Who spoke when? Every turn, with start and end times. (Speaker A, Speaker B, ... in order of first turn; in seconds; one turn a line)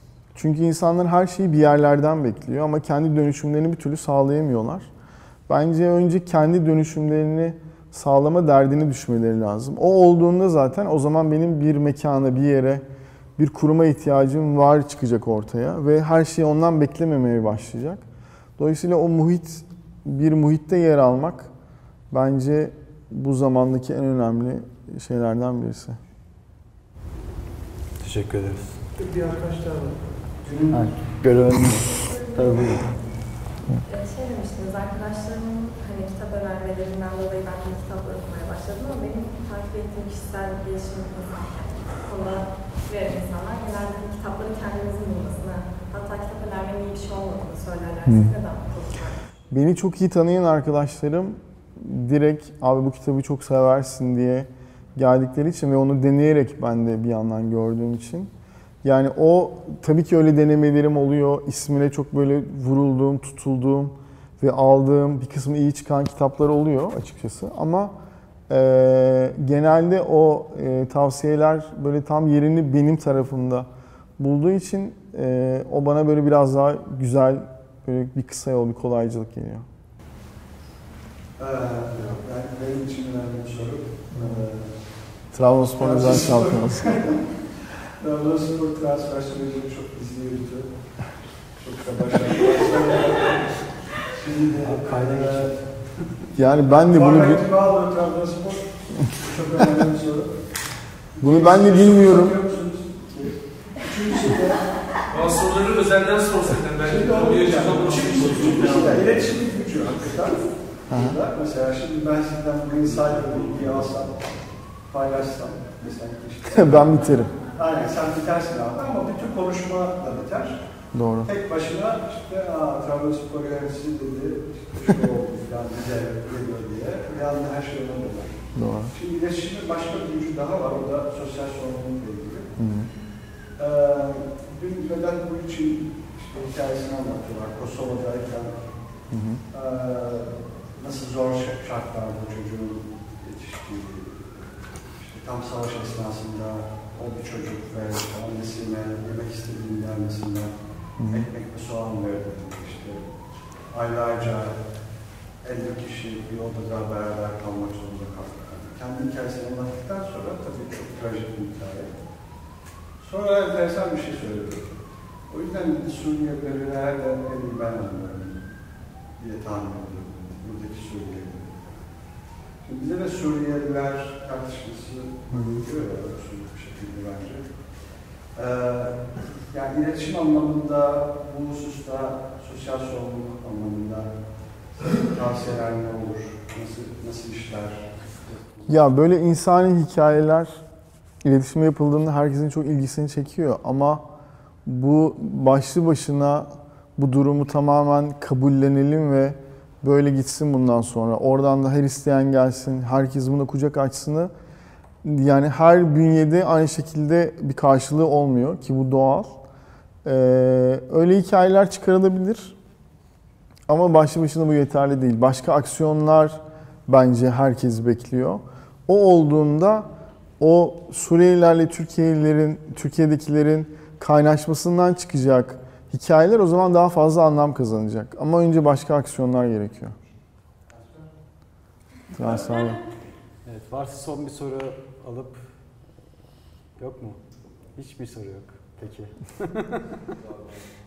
Speaker A: 0.3-4.9
Speaker A: 5.5-12.9
Speaker A: 13.4-18.1
Speaker A: 18.6-21.5
Speaker A: 22.1-26.0
Speaker B: 28.0-28.8
Speaker C: 29.0-30.0
Speaker B: 30.7-32.9
Speaker D: 32.1-32.6
Speaker D: 33.9-49.3
Speaker A: 48.0-48.3
Speaker A: 49.5-58.3
Speaker A: 58.8-68.0
Speaker A: 68.5-79.7
Speaker E: 81.4-85.0
Speaker A: 84.1-84.5
Speaker A: 85.3-87.2
Speaker E: 85.8-95.7
Speaker B: 94.6-95.6
Speaker A: 96.3-97.5
Speaker E: 96.8-100.5
Speaker E: 101.1-105.0
Speaker A: 101.2-102.4
Speaker C: 105.1-109.0
Speaker E: 106.8-114.3
Speaker A: 110.9-111.2
Speaker E: 114.8-120.6
Speaker A: 116.5-117.3
Speaker A: 120.9-121.3
Speaker E: 121.2-132.5
Speaker A: 128.6-128.9
Speaker A: 132.6-132.9
Speaker E: 133.6-138.8
Speaker A: 139.1-139.4
Speaker E: 139.5-153.2
Speaker A: 151.0-151.3
Speaker E: 153.7-154.6
Speaker E: 155.4-161.9
Speaker E: 163.0-168.4
Speaker E: 169.2-171.8
Speaker E: 172.6-184.2
Speaker A: 175.3-175.6
Speaker E: 184.8-188.9
Speaker A: 188.7-190.6
Speaker A: 191.2-194.1
Speaker A: 194.7-204.3
Speaker A: 205.0-209.4
Speaker A: 210.0-212.6
Speaker A: 213.7-230.0
Speaker E: 230.7-231.1
Speaker A: 232.1-232.8
Speaker B: 233.4-235.5
Speaker B: 236.8-237.2
Speaker B: 237.8-239.7